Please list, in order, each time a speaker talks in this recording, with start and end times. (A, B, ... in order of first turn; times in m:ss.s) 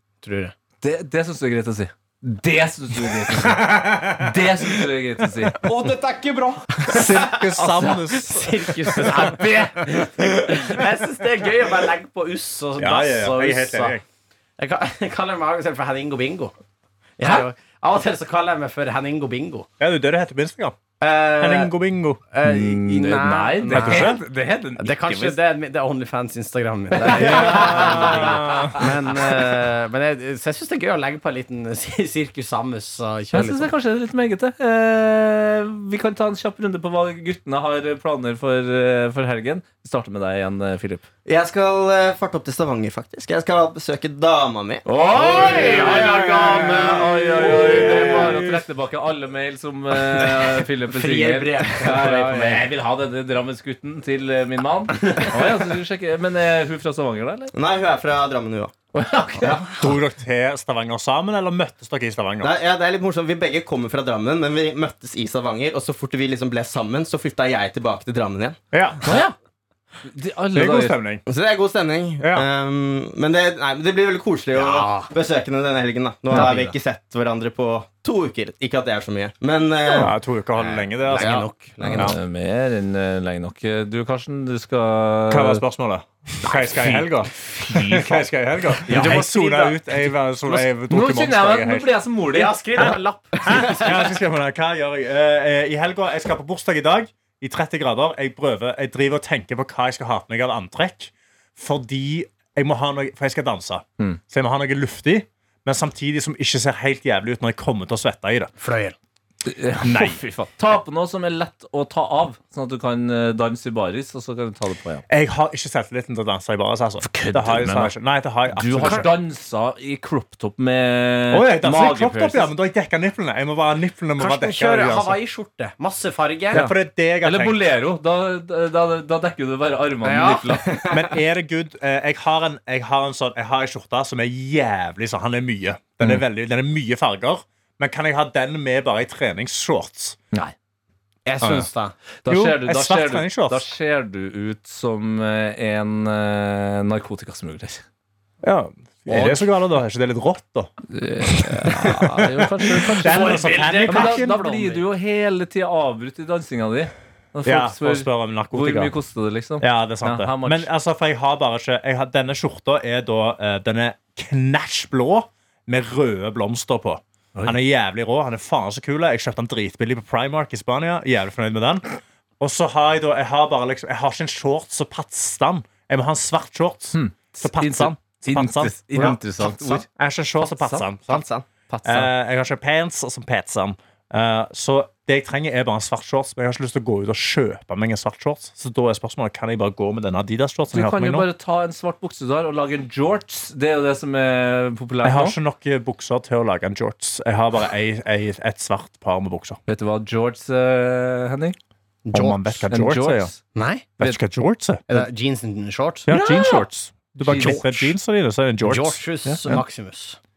0:00.2-0:00.5 A
0:00.8-0:08.0 B
0:03.3-0:04.4 C
0:05.6-0:14.0 A
0:06.8-0:09.4 C
0:09.0-0:10.5 B
0:12.8-0:14.0 C
0:14.6-0:16.5 A
0:17.2-0:19.7 A
0:19.8-0:20.8 C
0:21.0-0:21.7 A
0:21.4-0:22.2 C
0:22.3-0:24.2 A
0:22.4-0:25.4 B
0:23.7-0:24.2 C
0:24.8-0:33.7 A
0:26.9-0:28.9 B
0:27.1-0:28.9 C
0:33.3-0:41.0 B
0:41.2-0:48.1 D
0:44.8-0:57.5 B
0:45.4-0:46.1 A
0:47.8-0:48.3 C
0:50.2-0:52.7 A
0:57.5-0:58.7 D
0:58.9-0:59.8 B
0:59.8-1:02.5 C
1:02.4-1:08.6 D
1:08.7-1:09.2 C
1:09.0-1:09.3 B
1:10.0-1:11.0 B
1:10.5-1:11.2 C
1:11.3-1:20.1 D
1:12.2-1:12.4 C
1:14.5-1:15.1 A
1:16.3-1:16.6 A
1:20.0-1:22.2 C
1:20.6-1:22.2 A
1:21.8-1:25.6 B
1:25.3-1:31.9 C
1:26.7-1:29.2 B
1:28.9-1:29.8 A
1:30.9-1:32.9 B
1:32.3-1:34.1 A
1:32.8-1:48.5 C
1:48.6-1:49.0 A
1:49.4-1:55.0 B
1:49.8-1:50.2 C
1:55.1-1:59.1 C
1:57.0-1:57.9 B
1:58.5-2:02.5 B
1:58.8-1:59.0 A
2:01.3-2:05.2 C
2:04.2-2:06.6 A
2:06.5-2:07.6 C
2:06.5-2:10.8 B
2:10.0-2:11.1 A
2:10.9-2:20.2 C
2:21.2-2:21.9 A
2:21.4-2:21.7 C
2:22.2-2:27.8 B
2:22.3-2:23.7 C
2:28.4-2:30.7 C
2:29.1-2:29.5 B
2:30.9-2:40.7 B
2:31.3-2:34.4 C
2:33.0-2:34.8 A
2:37.4-2:39.0 C
2:39.6-2:59.2 C
2:56.9-2:59.8 B
2:58.9-2:59.8 A
2:59.9-3:01.3 C
3:00.4-3:00.8 B
3:01.1-3:01.4 D
3:01.7-3:02.1 B
3:01.8-3:11.3 C
3:10.7-3:15.4 B
3:15.0-3:19.6 C
3:19.7-3:21.6 B
3:22.0-3:22.7 A
3:22.1-3:23.3 C
3:22.7-3:23.4 B
3:23.5-3:23.9 A
3:24.0-3:24.8 C
3:24.9-3:26.1 A
3:26.1-3:29.6 C
3:26.1-3:26.7 B
3:27.2-3:27.6 B
3:27.3-3:27.9 A
3:28.6-3:30.2 A